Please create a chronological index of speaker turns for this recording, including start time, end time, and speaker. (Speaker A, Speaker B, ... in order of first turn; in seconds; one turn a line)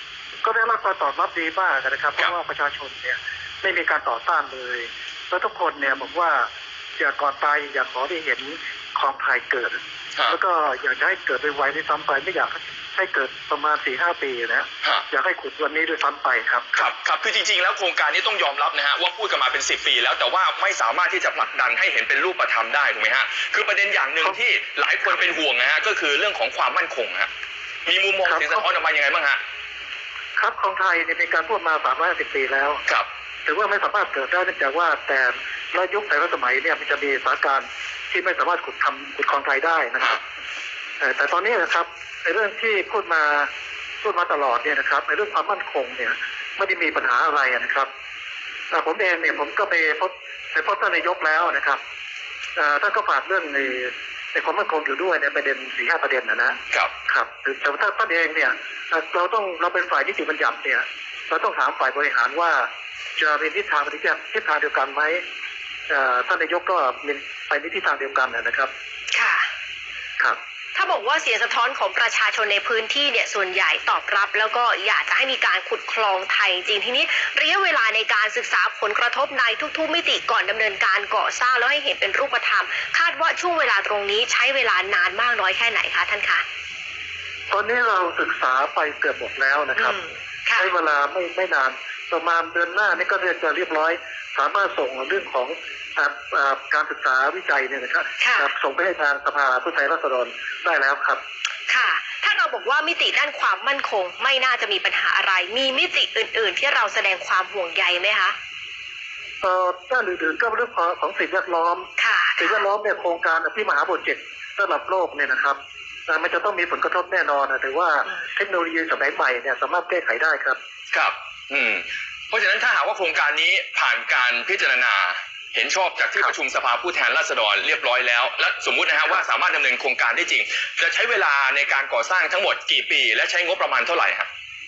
Speaker A: 0.4-16.9
Speaker B: 16.8-27.3
Speaker B: 27.9-29.4
Speaker A: 28.2-28.6
Speaker A: 30.4-32.9
Speaker A: 33.5-40.2
Speaker A: 41.0-43.5
Speaker A: 44.0-47.9
Speaker A: 48.7-51.8
Speaker A: 52.6-65.2
Speaker A: 65.9-68.7
Speaker C: 69.1-69.5
Speaker C: 70.8-86.4
Speaker A: 87.5-90.0
Speaker C: 89.8-90.7
Speaker A: 90.6-101.2
Speaker C: 98.2-98.5
Speaker C: 101.7-108.3
Speaker A: 109.4-120.6
Speaker C: 112.0-112.7
Speaker B: 120.9-134.3